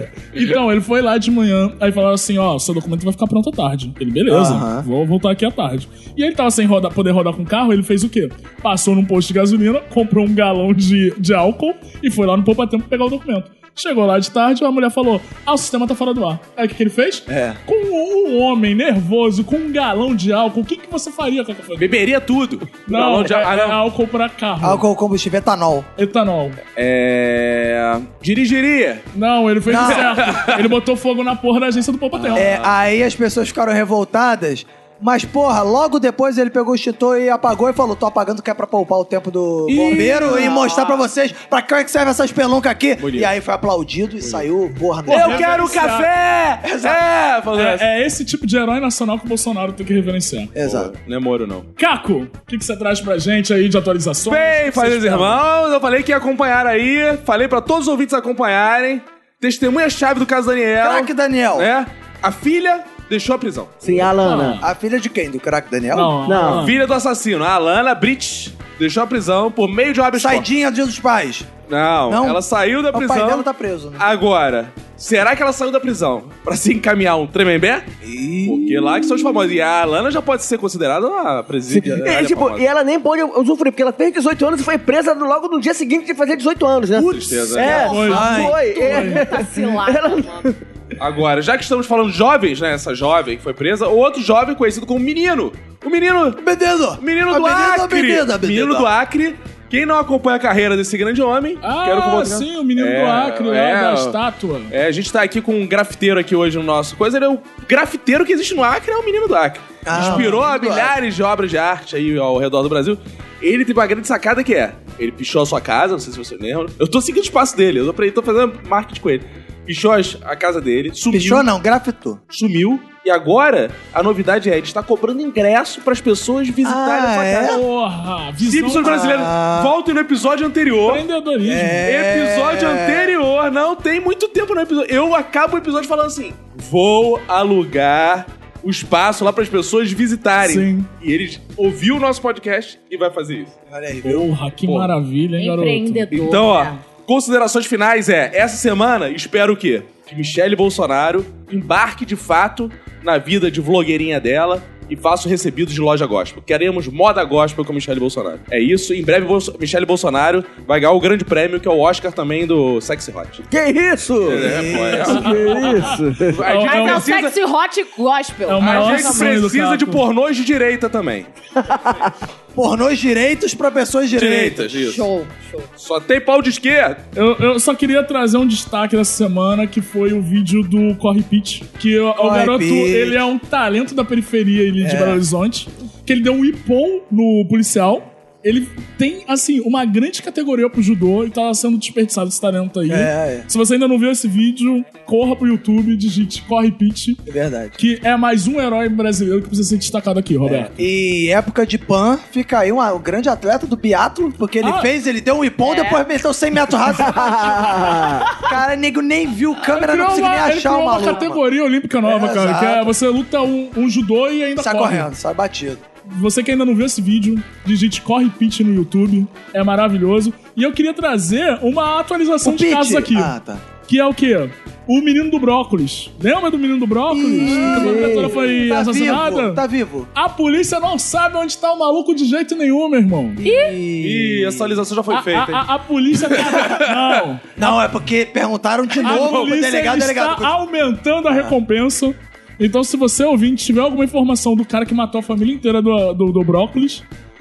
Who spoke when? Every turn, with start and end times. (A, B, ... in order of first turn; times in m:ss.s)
0:00.3-0:22.0 A
0:04.3-0:04.9 B
0:17.3-0:17.6 B
0:21.8-0:23.8 C
0:22.9-0:24.8 A
0:24.6-0:25.9 B
0:26.0-0:26.6 A
0:26.8-0:29.1 C
0:29.2-0:32.6 A
0:29.7-0:30.2 B
0:29.7-0:30.7 C
0:32.2-0:32.7 C
0:32.4-0:45.8 B
0:39.7-0:40.6 A
0:40.2-0:41.0 D
0:43.0-0:43.3 C
0:45.1-0:46.1 A
0:45.1-0:47.9 C
0:46.6-0:47.0 B
0:47.5-0:50.5 A
0:50.6-0:50.9 B
0:50.6-0:51.7 C
0:51.8-0:55.4 A
0:54.3-1:04.1 C
1:00.8-1:01.7 B
1:03.8-1:04.6 E
1:04.2-1:04.7 A
1:04.6-1:06.3 B
1:05.9-1:06.8 A
1:06.2-1:06.7 E
1:06.4-1:10.5 C
1:10.1-1:11.5 B
1:11.7-1:17.9 C
1:12.1-1:12.4 B
1:12.9-1:14.1 B
1:18.0-1:19.2 B
1:18.4-1:22.6 C
1:21.7-1:30.6 E
1:27.0-1:27.9 C
1:27.6-1:30.5 D
1:27.8-1:29.3 A
1:28.1-1:28.6 B
1:31.0-1:36.4 C
1:36.4-1:38.9 B
1:37.0-1:44.2 C
1:41.6-1:44.7 A
1:44.7-2:01.5 C
1:49.8-1:51.0 B
2:01.1-2:02.2 B
2:02.3-2:07.6 C
2:06.6-2:07.6 B
2:07.4-2:09.0 A
2:08.4-2:11.0 C
2:08.8-2:09.7 B
2:10.9-2:11.8 A
2:11.4-2:13.2 B
2:11.8-2:23.5 C
2:20.4-2:20.9 A
2:23.7-2:24.2 B
2:24.0-2:26.1 A
2:24.6-2:24.9 C
2:25.4-2:26.8 D
2:26.1-2:43.4 C
2:43.5-2:46.4 E
2:44.2-2:45.5 C
2:44.4-2:45.2 B
2:45.0-2:47.1 A
2:46.3-2:47.4 C
2:46.6-2:49.3 D
2:48.5-2:50.0 A
2:48.6-2:51.3 C
2:51.6-2:52.1 E
2:52.5-2:55.0 B
2:54.1-2:55.0 C
2:54.8-2:55.7 D
2:55.8-2:57.0 C
2:57.2-3:17.2 A
3:02.2-3:03.2 B
3:04.8-3:05.2 B
3:12.9-3:13.5 B
3:17.3-3:17.8 B
3:17.8-3:20.7 A
3:20.7-3:31.4 B
3:24.6-3:24.9 A
3:25.6-3:26.0 D
3:27.0-3:28.3 E
3:29.6-3:35.1 A
3:32.0-3:33.0 B
3:34.6-3:35.8 B
3:36.1-3:49.6 A
3:42.4-3:43.7 B
3:47.1-3:50.1 B
3:50.2-3:53.4 A
3:53.4-3:54.8 B
3:53.4-3:53.8 D
3:54.0-3:57.2 C
3:55.1-3:57.7 A
3:57.6-4:00.6 B
3:59.0-3:59.6 C
3:59.0-4:07.0 A